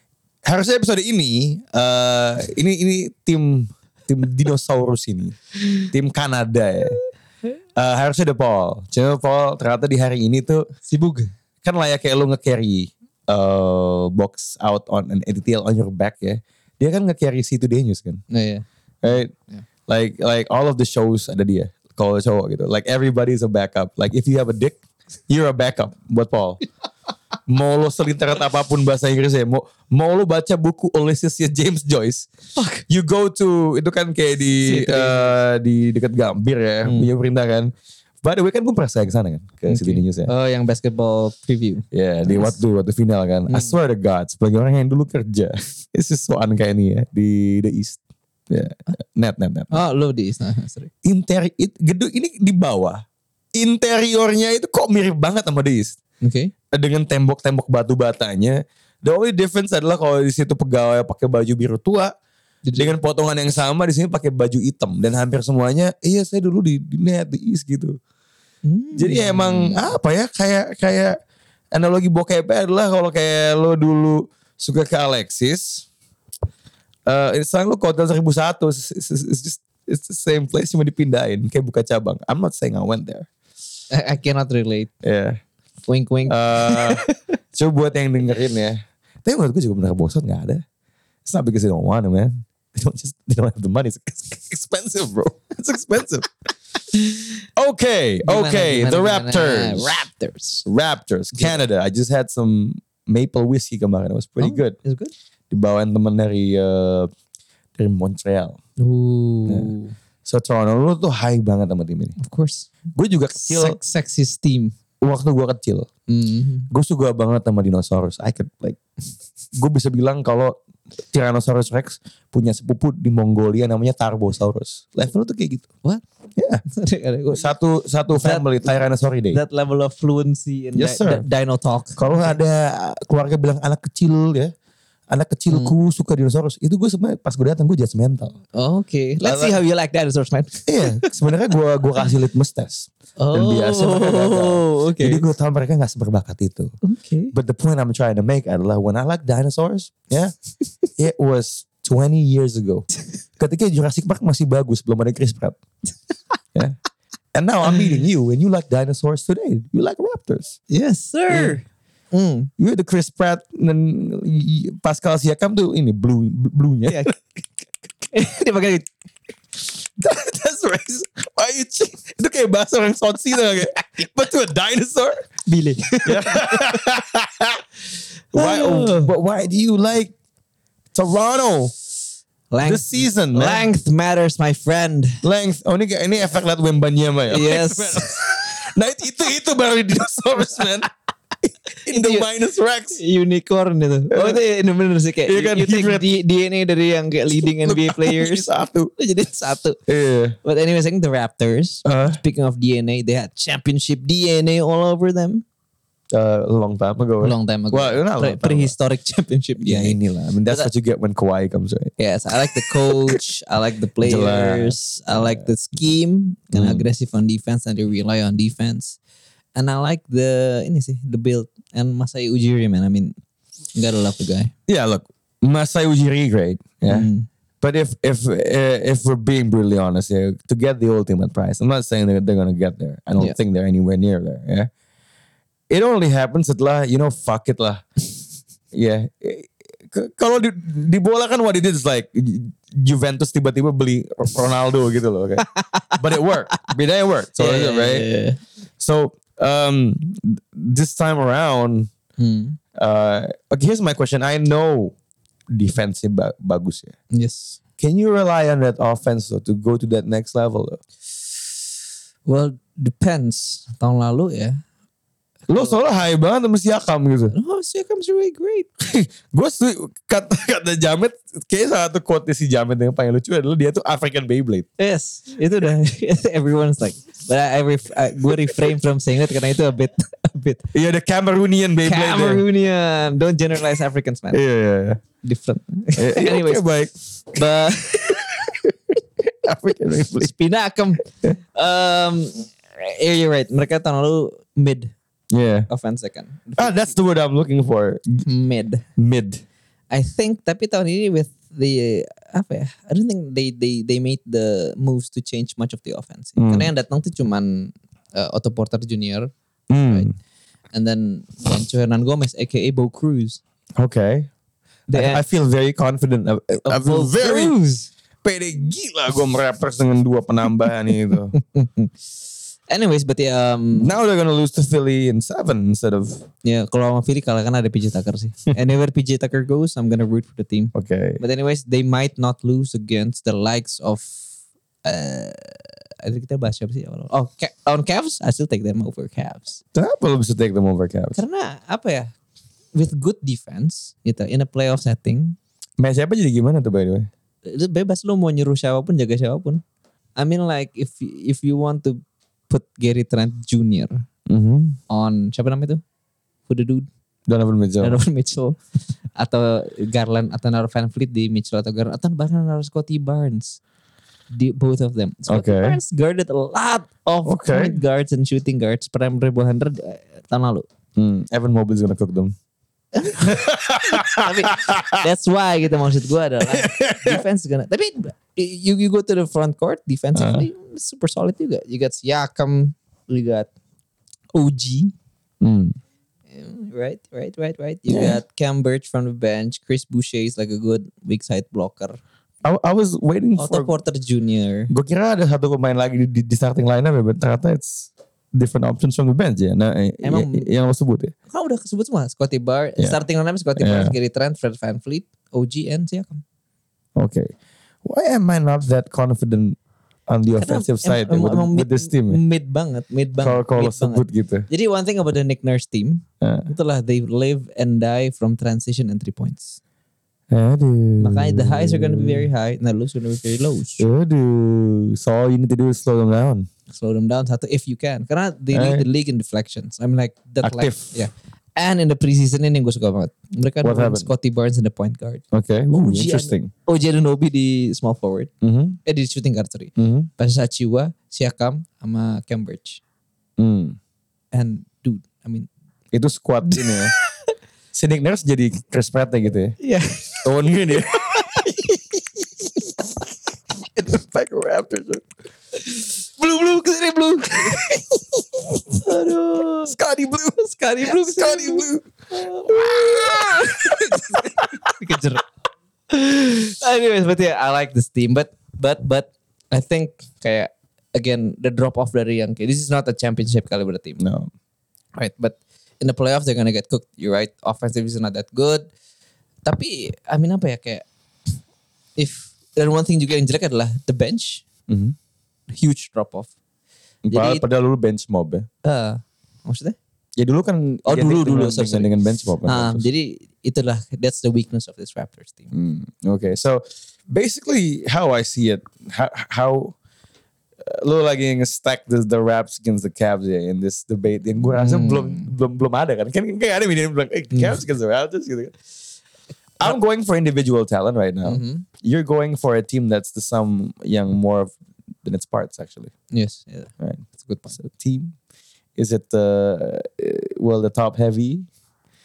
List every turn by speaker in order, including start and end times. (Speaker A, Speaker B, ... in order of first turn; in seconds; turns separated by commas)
Speaker A: 0.4-7.0, Speaker A: 7.8-10.7, Speaker B: 10.8-11.3, Speaker A: 11.6-18.2, Speaker B: 18.3-19.6, Speaker A: 19.0-19.3, Speaker A: 19.9-26.6, Speaker A: 27.5-32.3, Speaker B: 32.6-32.8, Speaker A: 32.9-37.7, Speaker B: 34.6-35.4, Speaker B: 36.8-37.1, Speaker A: 38.2-40.3, Speaker B: 39.7-42.6, Speaker A: 41.9-49.8, Speaker B: 43.5-43.8, Speaker B: 49.7-50.9, Speaker A: 51.0-53.0, Speaker A: 53.5-56.0, Speaker B: 56.2-56.5, Speaker A: 56.7-62.1, Speaker B: 62.6-62.9, Speaker A: 62.8-68.0, Speaker B: 68.6-69.9, Speaker A: 69.0-71.2, Speaker A: 71.7-75.9, Speaker A: 77.1-83.3, Speaker B: 83.9-84.9, Speaker A: 85.0-85.3, Speaker B: 85.9-87.2, Speaker A: 86.3-87.0, Speaker A: 87.5-90.6, Speaker A: 91.2-96.3, Speaker A: 97.5-100.1, Speaker B: 98.2-100.6, Speaker A: 100.6-104.8, Speaker B: 101.3-101.6, Speaker B: 104.4-105.1, Speaker A: 105.5-107.1, Speaker A: 107.8-108.6, Speaker B: 108.8-109.9, Speaker A: 110.2-112.1, Speaker B: 112.2-112.7, Speaker A: 113.0-113.8, Speaker B: 113.3-114.7, Speaker A: 115.0-115.9, Speaker B: 116.1-116.7, Speaker A: 116.7-118.8, Speaker A: 119.5-120.5, Speaker A: 121.1-125.7, Speaker A: 126.4-126.6, Speaker B: 126.7-127.5, Speaker A: 127.3-129.4, Speaker B: 128.1-128.7, Speaker B: 129.3-132.4, Speaker A: 130.7-131.2, Speaker A: 132.0-134.5, Speaker A: 135.1-138.4, Speaker B: 135.5-135.7, Speaker B: 138.5-141.1, Speaker A: 139.2-139.6, Speaker A: 140.7-146.7, Speaker B: 143.2-145.2, Speaker B: 146.8-147.3, Speaker A: 147.3-150.3, Speaker A: 151.0-152.9, Speaker A: 153.4-155.6, Speaker A: 157.3-160.6, Speaker B: 160.7-162.5, Speaker A: 161.3-161.6, Speaker A: 162.6-167.1, Speaker B: 166.8-167.1, Speaker B: 168.1-168.8, Speaker A: 170.0-175.3, Speaker B: 175.4-176.7, Speaker A: 176.1-177.6, Speaker B: 178.3-179.1, Speaker A: 178.3-180.1, Speaker A: 180.9-181.7, Speaker B: 182.5-185.2, Speaker A: 182.6-183.7, Speaker A: 185.2-190.9, Speaker B: 187.3-188.4, Speaker A: 191.8-193.0, Speaker B: 191.9-192.3, Speaker B: 192.9-198.4, Speaker A: 194.1-194.4, Speaker A: 195.2-196.1, Speaker A: 197.3-198.9, Speaker B: 199.0-199.8, Speaker A: 199.9-200.3, Speaker B: 200.4-205.4, Speaker A: 201.8-202.2, Speaker A: 206.1-208.7, Speaker B: 207.2-210.0, Speaker A: 209.6-211.9, Speaker B: 212.0-219.0, Speaker A: 214.0-215.5, Speaker A: 216.5-216.9, Speaker B: 219.5-223.1, Speaker B: 223.7-224.5, Speaker A: 224.7-234.7, Speaker B: 226.9-227.3, Speaker A: 235.7-237.8, Speaker A: 238.7-248.1, Speaker B: 245.5-245.9, Speaker B: 247.4-248.4, Speaker A: 248.8-251.9, Speaker B: 252.2-252.6, Speaker A: 252.8-254.9, Speaker A: 255.5-256.9, Speaker B: 257.1-257.6, Speaker A: 257.8-260.8, Speaker B: 262.2-264.6, Speaker B: 265.5-265.8, Speaker A: 265.5-267.3, Speaker B: 267.3-268.7, Speaker A: 268.8-274.7, Speaker B: 274.8-280.6, Speaker A: 280.7-282.4, Speaker B: 281.8-284.4, Speaker A: 284.3-285.0, Speaker B: 285.2-286.6, Speaker A: 286.0-286.9, Speaker B: 287.3-288.4, Speaker A: 288.1-288.6, Speaker A: 289.4-290.3, Speaker B: 290.2-294.9, Speaker A: 295.3-295.7, Speaker B: 295.7-296.9, Speaker A: 296.6-298.2, Speaker B: 298.2-298.8, Speaker A: 299.0-299.4, Speaker B: 299.9-309.3, Speaker A: 306.4-306.7, Speaker A: 309.7-310.1, Speaker B: 310.7-313.4, Speaker A: 313.8-314.3, Speaker B: 314.9-315.2, Speaker A: 314.9-317.6, Speaker B: 316.6-317.9, Speaker A: 318.2-321.3, Speaker B: 320.9-322.1, Speaker B: 322.7-323.9, Speaker A: 323.8-326.2, Speaker B: 326.4-334.2, Speaker A: 330.7-331.2, Speaker B: 334.8-339.6, Speaker A: 339.7-341.2, Speaker B: 341.1-342.1, Speaker B: 342.7-345.4, Speaker A: 345.8-347.1, Speaker B: 347.4-349.6, Speaker B: 350.1-354.0, Speaker A: 354.3-354.8, Speaker B: 354.9-355.8, Speaker B: 356.5-356.9, Speaker A: 357.3-358.0, Speaker B: 357.8-358.6, Speaker B: 359.1-363.6, Speaker B: 364.3-370.7, Speaker A: 365.3-365.8, Speaker A: 367.2-367.8, Speaker A: 370.9-372.3, Speaker B: 372.9-383.5, Speaker A: 373.1-375.0, Speaker A: 376.5-377.2, Speaker A: 380.1-380.5, Speaker B: 384.3-384.9, Speaker A: 385.4-385.7, Speaker B: 386.3-391.9, Speaker A: 387.9-388.2, Speaker A: 392.4-393.7, Speaker B: 393.4-394.7, Speaker A: 394.7-401.1, Speaker B: 400.0-400.5, Speaker B: 401.3-406.2, Speaker A: 403.6-403.9, Speaker A: 406.9-407.3, Speaker A: 407.8-409.6, Speaker A: 410.1-412.2, Speaker B: 410.4-419.6, Speaker A: 413.2-414.5, Speaker A: 416.2-416.5, Speaker A: 420.3-422.3, Speaker B: 421.0-423.9, Speaker A: 423.8-426.5, Speaker B: 426.7-435.2, Speaker A: 428.5-428.8, Speaker A: 430.4-431.0, Speaker A: 433.6-434.1, Speaker A: 435.3-436.5, Speaker B: 435.8-438.3, Speaker A: 438.4-438.8, Speaker B: 438.9-442.8, Speaker A: 439.8-440.1, Speaker A: 443.4-443.8, Speaker B: 444.3-445.5, Speaker A: 445.9-446.9, Speaker B: 446.5-446.8, Speaker A: 447.7-449.6, Speaker B: 449.6-450.3, Speaker A: 450.2-451.8, Speaker B: 450.9-451.6, Speaker A: 453.7-455.0, Speaker B: 455.6-457.8, Speaker A: 457.5-457.8, Speaker B: 458.7-459.7, Speaker A: 459.6-461.9, Speaker B: 460.4-465.2, Speaker A: 462.5-464.5, Speaker B: 465.9-474.0, Speaker A: 474.0-474.3, Speaker B: 474.9-478.7, Speaker B: 479.4-480.9, Speaker B: 482.0-484.4, Speaker A: 484.7-484.9, Speaker B: 485.5-486.3, Speaker A: 487.0-488.5, Speaker B: 487.1-487.4, Speaker B: 488.6-489.8, Speaker A: 490.1-492.8, Speaker B: 490.9-491.9, Speaker B: 492.4-495.5, Speaker A: 495.5-499.7, Speaker A: 500.6-508.5, Speaker B: 504.5-505.3, Speaker B: 507.3-507.6, Speaker A: 509.6-515.9, Speaker B: 511.2-511.6, Speaker B: 516.1-517.6, Speaker A: 516.8-518.1, Speaker A: 518.8-521.5